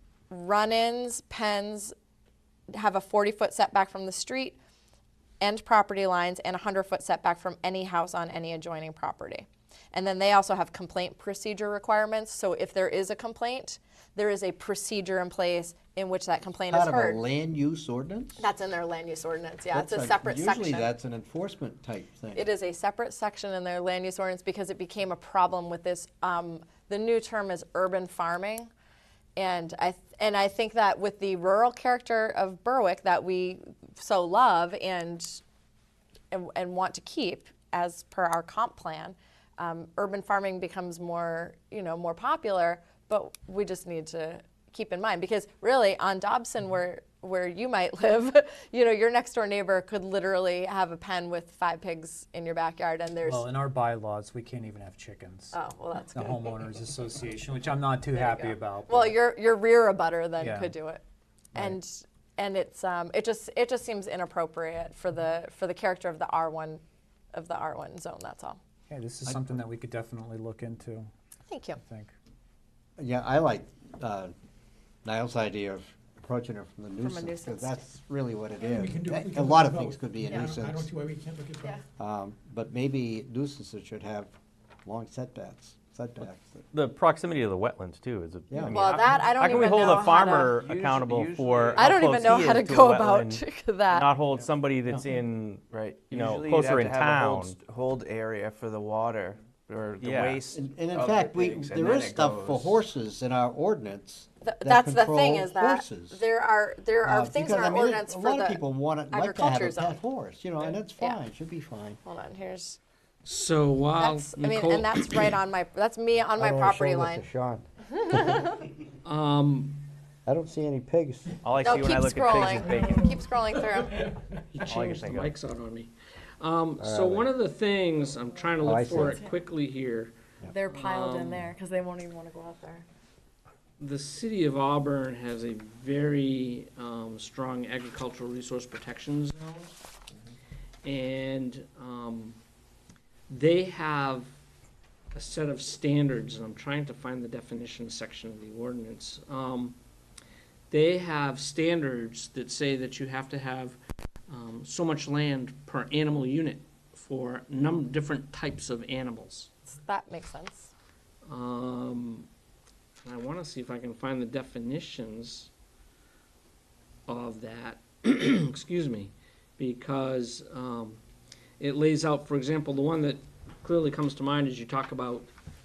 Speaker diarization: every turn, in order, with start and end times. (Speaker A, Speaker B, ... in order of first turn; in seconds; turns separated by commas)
Speaker A: 0.3-1.9, Speaker A: 2.7-4.6, Speaker A: 5.4-17.2, Speaker B: 16.7-18.4, Speaker A: 18.4-20.9, Speaker B: 19.7-22.5, Speaker A: 22.4-28.7, Speaker A: 29.4-35.4, Speaker A: 36.3-53.5, Speaker C: 53.3-55.6, Speaker A: 55.5-56.7, Speaker C: 56.1-59.1, Speaker A: 58.1-66.8, Speaker C: 60.4-60.7, Speaker A: 67.3-68.6, Speaker C: 68.9-71.1, Speaker D: 69.1-69.6, Speaker A: 71.5-71.8, Speaker C: 71.8-72.1, Speaker B: 73.0-74.3, Speaker B: 75.0-80.9, Speaker A: 77.0-77.9, Speaker E: 78.6-81.8, Speaker B: 82.0-84.3, Speaker B: 84.8-86.6, Speaker D: 86.7-97.6, Speaker B: 88.5-88.9, Speaker A: 88.7-90.5, Speaker F: 88.9-91.9, Speaker A: 91.8-94.1, Speaker F: 95.7-102.8, Speaker D: 100.0-100.4, Speaker B: 100.5-106.2, Speaker A: 104.4-110.0, Speaker B: 107.0-112.0, Speaker A: 112.0-112.8, Speaker G: 113.2-115.3, Speaker A: 114.0-117.2, Speaker B: 116.4-118.5, Speaker A: 118.2-118.6, Speaker G: 119.0-119.8, Speaker B: 120.3-121.4, Speaker D: 121.5-123.1, Speaker A: 121.6-124.1, Speaker E: 122.7-123.2, Speaker G: 124.5-125.9, Speaker D: 124.6-125.3, Speaker G: 126.4-130.1, Speaker B: 126.8-127.3, Speaker B: 128.6-129.2, Speaker A: 130.5-132.9, Speaker G: 130.7-131.5, Speaker G: 133.8-139.8, Speaker G: 140.8-142.4, Speaker G: 143.3-144.3, Speaker G: 145.1-149.8, Speaker G: 150.7-153.8, Speaker G: 154.3-159.5, Speaker A: 159.7-160.7, Speaker G: 161.3-162.3, Speaker G: 163.0-165.5, Speaker G: 167.1-171.0, Speaker G: 171.6-175.3